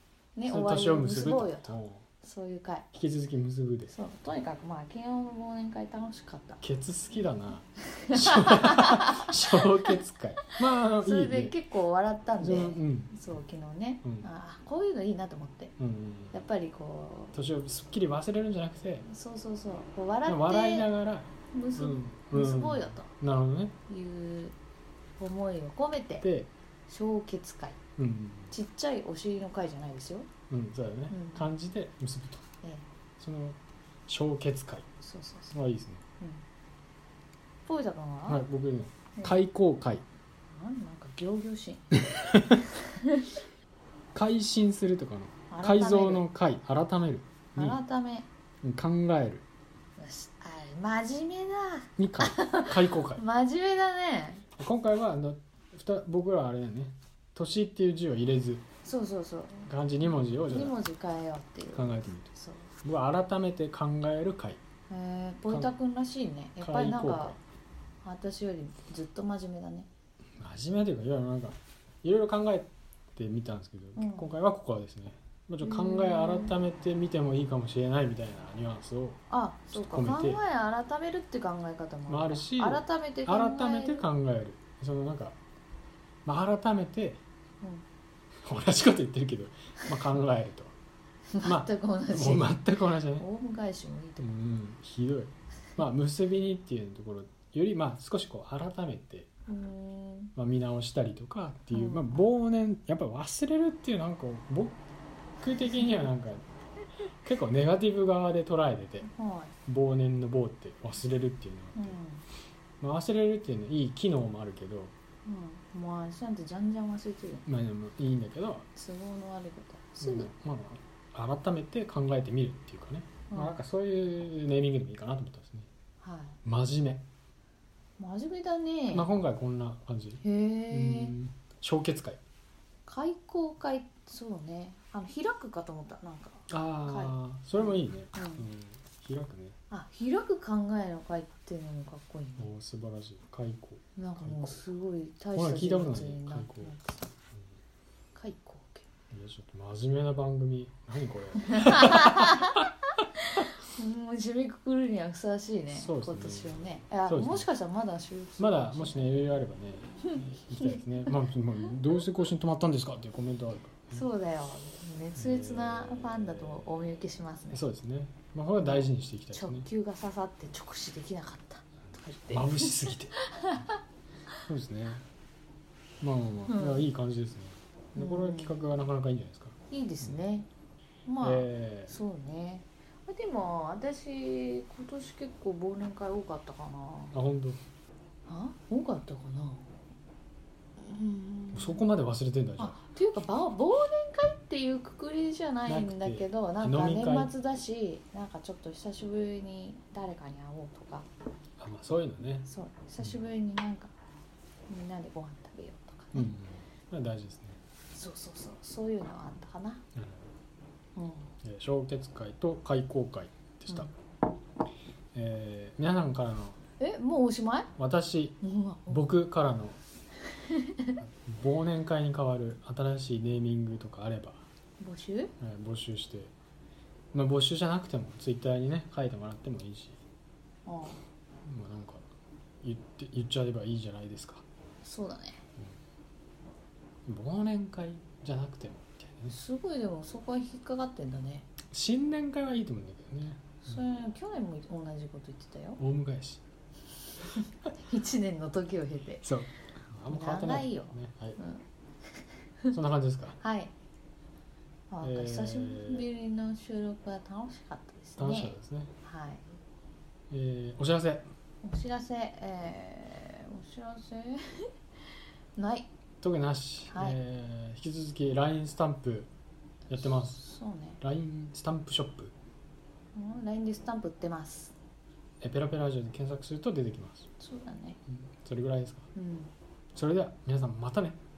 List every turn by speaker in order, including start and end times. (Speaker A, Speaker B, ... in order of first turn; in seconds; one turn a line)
Speaker A: 0.4-2.9
Speaker B: 0.5-2.0
Speaker B: 2.9-4.0
Speaker A: 3.9-6.6
Speaker B: 6.6-11.6
Speaker A: 7.9-9.9
Speaker A: 10.9-15.8
Speaker B: 12.4-13.2
Speaker B: 15.8-16.4
Speaker A: 16.3-17.3
Speaker B: 17.3-19.1
Speaker A: 19.1-20.9
Speaker B: 20.3-23.8
Speaker A: 21.5-23.1
Speaker A: 23.9-24.6
Speaker A: 25.2-26.3
Speaker B: 26.2-26.5
Speaker A: 26.9-27.8
Speaker B: 28.0-28.5
Speaker A: 28.5-30.3
Speaker B: 30.5-32.5
Speaker A: 31.1-31.5
Speaker B: 33.2-34.9
Speaker A: 35.0-35.5
Speaker B: 35.5-36.0
Speaker A: 37.6-38.4
Speaker B: 38.3-40.0
Speaker A: 40.5-43.4
Speaker B: 42.2-42.6
Speaker B: 44.1-47.8
Speaker A: 45.5-46.3
Speaker A: 47.6-48.3
Speaker B: 48.6-49.4
Speaker A: 50.0-54.5
Speaker B: 52.0-53.2
Speaker B: 54.6-58.6
Speaker A: 58.8-62.7
Speaker B: 59.7-60.8
Speaker B: 61.7-64.6
Speaker A: 64.9-67.4
Speaker B: 66.6-67.4
Speaker A: 68.0-69.9
Speaker B: 70.4-80.4
Speaker A: 74.0-74.3
Speaker A: 75.6-76.6
Speaker A: 79.3-84.1
Speaker B: 82.1-85.4
Speaker B: 86.2-87.2
Speaker B: 88.5-90.7
Speaker A: 91.3-94.3
Speaker B: 91.4-93.2
Speaker B: 94.2-99.3
Speaker A: 99.5-100.3
Speaker B: 100.4-104.8
Speaker A: 101.7-102.2
Speaker B: 105.4-106.4
Speaker B: 107.2-109.1
Speaker A: 109.0-109.5
Speaker B: 109.7-112.0
Speaker A: 111.8-112.2
Speaker B: 112.8-114.9
Speaker A: 115.2-117.5
Speaker B: 117.5-118.7
Speaker A: 118.7-120.3
Speaker B: 120.0-125.7
Speaker A: 123.3-123.6
Speaker A: 126.0-126.4
Speaker B: 126.5-127.0
Speaker A: 128.0-129.1
Speaker B: 128.9-132.2
Speaker A: 130.2-131.1
Speaker A: 132.9-138.5
Speaker B: 136.5-139.6
Speaker A: 139.7-142.5
Speaker B: 142.4-144.6
Speaker A: 144.0-147.1
Speaker B: 145.3-146.7
Speaker A: 148.2-148.9
Speaker B: 149.1-152.6
Speaker A: 151.5-152.7
Speaker A: 153.3-159.0
Speaker B: 155.8-157.5
Speaker B: 158.4-164.0
Speaker A: 160.1-161.1
Speaker A: 163.9-167.6
Speaker B: 165.2-166.7
Speaker B: 167.5-169.7
Speaker A: 168.6-173.8
Speaker B: 172.3-173.2
Speaker B: 174.5-175.0
Speaker B: 176.0-179.6
Speaker A: 176.5-176.9
Speaker A: 177.9-178.7
Speaker A: 179.7-180.5
Speaker A: 181.1-187.2
Speaker B: 181.2-182.0
Speaker B: 187.1-187.6
Speaker A: 188.3-189.7
Speaker A: 190.8-191.8
Speaker B: 191.5-192.8
Speaker A: 192.6-201.1
Speaker B: 195.7-197.3
Speaker B: 201.6-202.5
Speaker A: 202.5-203.9
Speaker A: 204.7-206.3
Speaker B: 206.1-207.6
Speaker A: 207.9-209.8
Speaker B: 209.9-210.3
Speaker A: 211.0-211.3
Speaker B: 211.4-213.9
Speaker B: 215.2-216.6
Speaker A: 216.8-217.7
Speaker B: 217.8-219.8
Speaker A: 218.4-219.1
Speaker A: 220.4-221.0
Speaker B: 221.0-224.4
Speaker A: 224.8-225.3
Speaker B: 225.4-226.3
Speaker B: 227.1-230.0
Speaker A: 230.7-231.0
Speaker B: 231.4-232.0
Speaker B: 232.6-234.4
Speaker A: 234.8-235.4
Speaker B: 237.1-239.3
Speaker A: 239.3-241.5
Speaker B: 241.7-243.7
Speaker A: 243.6-245.8
Speaker B: 245.8-246.4
Speaker A: 247.2-249.3
Speaker B: 249.2-251.4
Speaker A: 250.1-252.8
Speaker B: 252.7-253.4
Speaker A: 253.4-253.7
Speaker A: 254.9-259.5
Speaker B: 255.0-256.1
Speaker B: 258.2-258.9
Speaker B: 260.3-261.3
Speaker A: 261.6-264.7
Speaker A: 265.6-265.9
Speaker B: 266.2-269.3
Speaker A: 266.9-267.2
Speaker B: 269.9-270.4
Speaker A: 270.1-271.0
Speaker B: 271.0-272.3
Speaker A: 273.1-274.7
Speaker B: 275.4-277.3
Speaker A: 277.4-278.0
Speaker B: 278.3-279.1
Speaker A: 279.1-279.5
Speaker B: 279.9-281.2